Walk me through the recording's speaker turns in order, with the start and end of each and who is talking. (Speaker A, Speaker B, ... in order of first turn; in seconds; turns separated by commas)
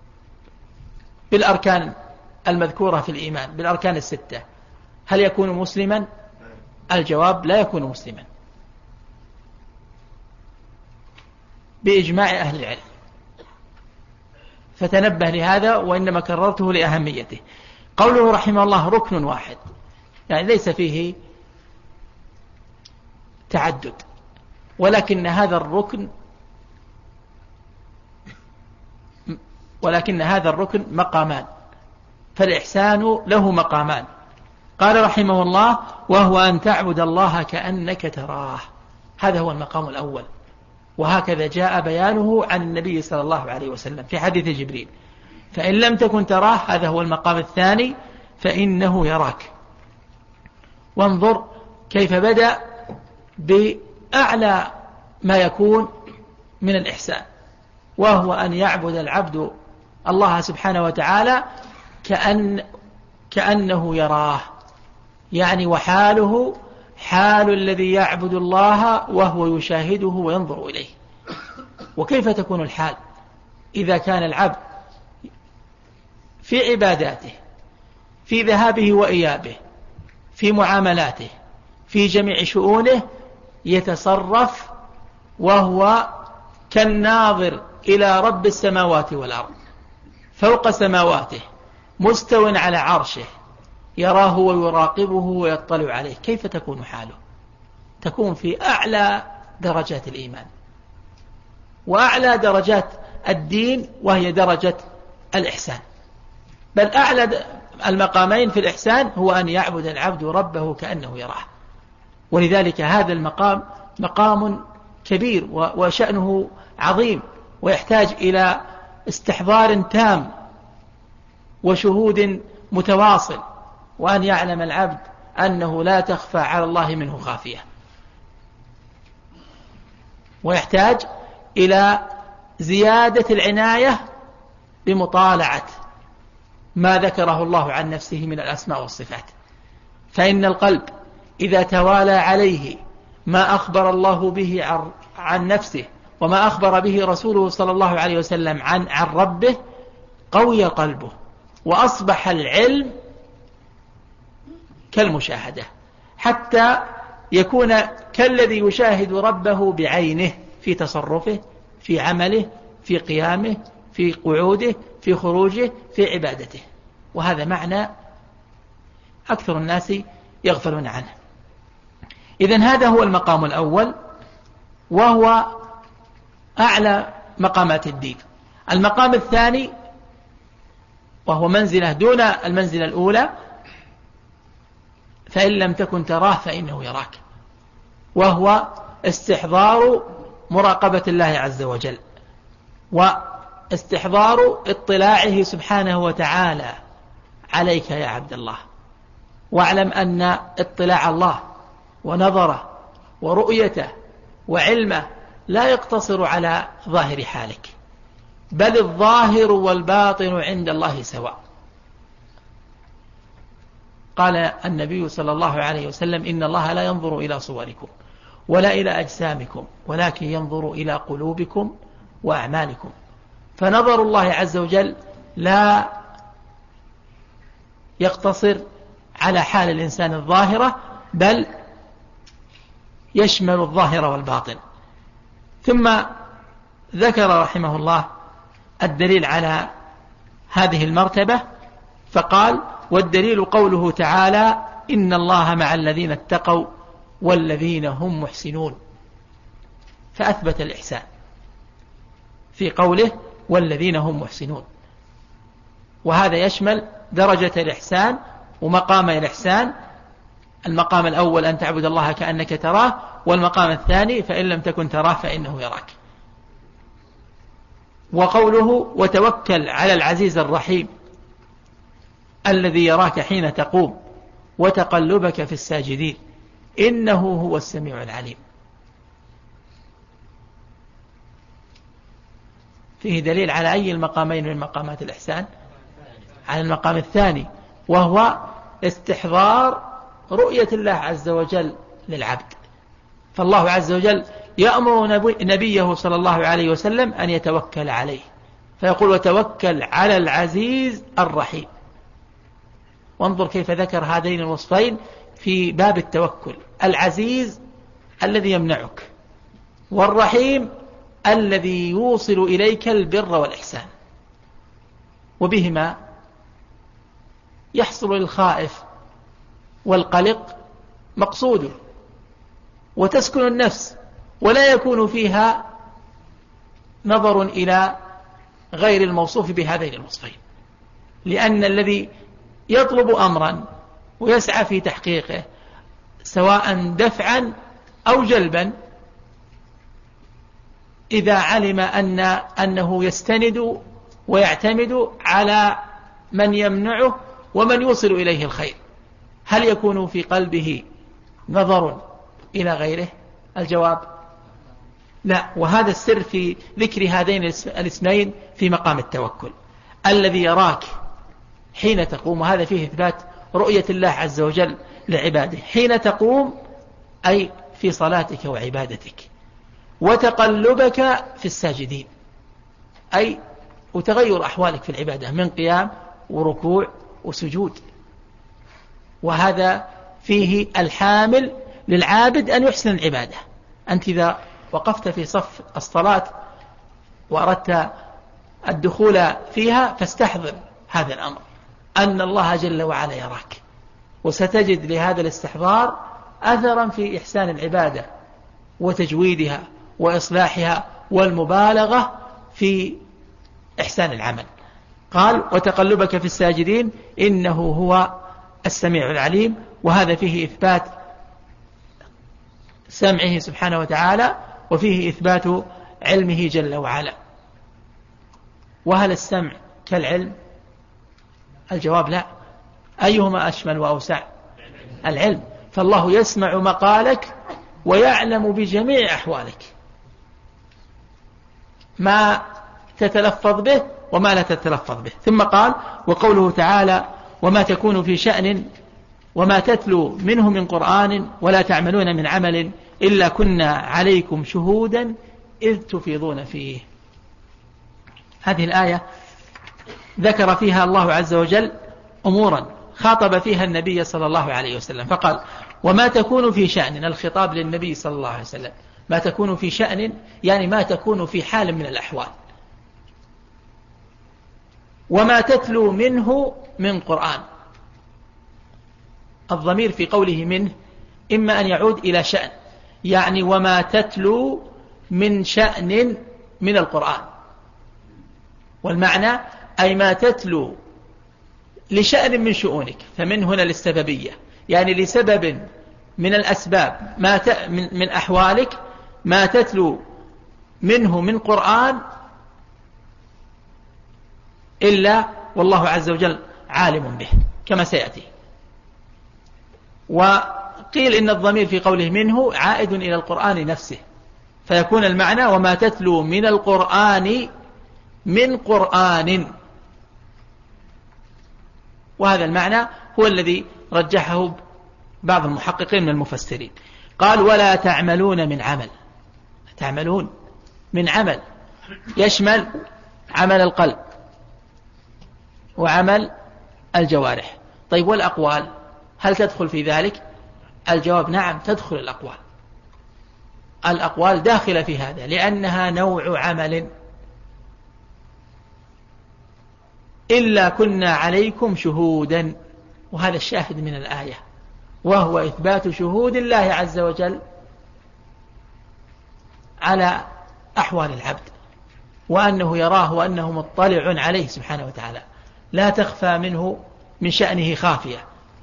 Speaker A: 1.3-1.9, Speaker A: 2.5-4.4, Speaker A: 5.1-6.1, Speaker A: 6.9-8.2, Speaker A: 11.8-12.8, Speaker A: 14.8-17.4, Speaker A: 18.0-19.6, Speaker A: 20.3-21.1, Speaker A: 23.5-24.0, Speaker A: 24.8-26.1, Speaker A: 29.3-31.5, Speaker A: 32.4-34.0, Speaker A: 34.8-38.6, Speaker A: 39.2-40.3, Speaker A: 41.0-44.9, Speaker A: 45.5-49.5, Speaker A: 51.0-52.6, Speaker A: 53.4-54.7, Speaker A: 55.2-55.9, Speaker A: 56.6-57.2, Speaker A: 58.0-59.5, Speaker A: 60.1-61.4, Speaker A: 62.0-62.6, Speaker A: 63.3-64.5, Speaker A: 65.3-70.9, Speaker A: 72.0-73.0, Speaker A: 73.7-74.6, Speaker A: 76.4-77.3, Speaker A: 78.3-79.6, Speaker A: 80.3-81.3, Speaker A: 81.9-83.0, Speaker A: 83.7-84.7, Speaker A: 85.4-86.2, Speaker A: 86.7-89.5, Speaker A: 90.4-91.4, Speaker A: 92.0-93.3, Speaker A: 94.0-97.2, Speaker A: 98.0-100.5, Speaker A: 101.9-105.8, Speaker A: 106.7-111.4, Speaker A: 112.3-120.3, Speaker A: 121.6-123.4, Speaker A: 124.0-127.6, Speaker A: 130.4-131.1, Speaker A: 131.6-134.0, Speaker A: 134.8-135.7, Speaker A: 136.8-139.3, Speaker A: 140.1-149.6, Speaker A: 150.3-151.1, Speaker A: 151.6-152.9, Speaker A: 154.9-155.7, Speaker A: 156.2-166.6, Speaker A: 167.1-167.9, Speaker A: 169.3-171.1, Speaker A: 172.4-173.9, Speaker A: 174.9-175.6, Speaker A: 176.6-179.7, Speaker A: 181.3-183.3, Speaker A: 185.3-187.2, Speaker A: 188.2-192.0, Speaker A: 192.9-196.8, Speaker A: 197.5-198.6, Speaker A: 199.5-201.4, Speaker A: 202.0-202.7, Speaker A: 203.2-203.9, Speaker A: 204.5-207.7, Speaker A: 208.5-211.4, Speaker A: 214.2-217.9, Speaker A: 218.5-221.7, Speaker A: 222.2-222.9, Speaker A: 223.6-225.9, Speaker A: 228.0-228.6, Speaker A: 229.2-231.5, Speaker A: 233.1-234.6, Speaker A: 235.6-236.1, Speaker A: 236.9-238.1, Speaker A: 238.8-239.7, Speaker A: 240.5-241.4, Speaker A: 242.1-246.7, Speaker A: 247.2-248.8, Speaker A: 250.1-251.0, Speaker A: 252.5-254.7, Speaker A: 256.0-259.7, Speaker A: 260.6-265.9, Speaker A: 268.1-270.9, Speaker A: 272.5-274.0, Speaker A: 274.6-276.2, Speaker A: 276.8-278.4, Speaker A: 283.0-285.5, Speaker A: 286.5-292.6, Speaker A: 293.3-298.2, Speaker A: 298.8-301.7, Speaker A: 303.2-307.6, Speaker A: 308.2-309.1, Speaker A: 309.9-310.7, Speaker A: 311.2-313.9, Speaker A: 315.4-316.0, Speaker A: 317.7-318.8, Speaker A: 319.9-320.5, Speaker A: 321.2-321.8, Speaker A: 323.0-325.7, Speaker A: 327.0-327.9, Speaker A: 328.7-330.4, Speaker A: 331.2-332.1, Speaker A: 332.7-333.6, Speaker A: 334.2-335.4, Speaker A: 336.2-337.5, Speaker A: 338.1-338.7, Speaker A: 341.1-345.8, Speaker A: 346.3-348.8, Speaker A: 349.5-350.8, Speaker A: 351.5-352.0, Speaker A: 352.5-354.1, Speaker A: 355.2-359.5, Speaker A: 360.1-360.9, Speaker A: 361.8-366.6, Speaker A: 367.2-369.3, Speaker A: 370.0-372.1, Speaker A: 373.1-373.4, Speaker A: 373.9-377.8, Speaker A: 379.2-386.3, Speaker A: 387.3-387.9, Speaker A: 388.7-391.4, Speaker A: 392.0-393.6, Speaker A: 394.2-398.1, Speaker A: 398.8-403.0, Speaker A: 403.8-404.5, Speaker A: 405.1-410.9, Speaker A: 412.9-417.1, Speaker A: 418.9-420.3, Speaker A: 421.7-422.3, Speaker A: 423.0-424.2, Speaker A: 425.0-427.3, Speaker A: 427.8-429.7, Speaker A: 432.0-432.4, Speaker A: 433.0-438.7, Speaker A: 439.4-446.8, Speaker A: 448.4-449.0, Speaker A: 450.2-451.7, Speaker A: 452.2-462.3, Speaker A: 465.1-467.4, Speaker A: 469.5-470.7, Speaker A: 471.3-472.5, Speaker A: 473.0-477.3, Speaker A: 478.8-480.8, Speaker A: 481.9-485.6, Speaker A: 486.2-490.0, Speaker A: 490.8-492.0, Speaker A: 494.8-498.3, Speaker A: 500.1-504.0, Speaker A: 504.7-507.5, Speaker A: 508.3-509.5, Speaker A: 512.2-514.6, Speaker A: 515.2-518.9, Speaker A: 519.8-520.3, Speaker A: 520.9-521.4, Speaker A: 522.1-522.7, Speaker A: 523.3-524.0, Speaker A: 525.8-526.3, Speaker A: 526.9-528.7, Speaker A: 529.2-530.2, Speaker A: 530.9-532.4, Speaker A: 533.8-536.9, Speaker A: 540.3-542.5, Speaker A: 543.1-544.4, Speaker A: 545.0-547.4, Speaker A: 549.8-550.2, Speaker A: 550.8-551.5, Speaker A: 552.3-558.2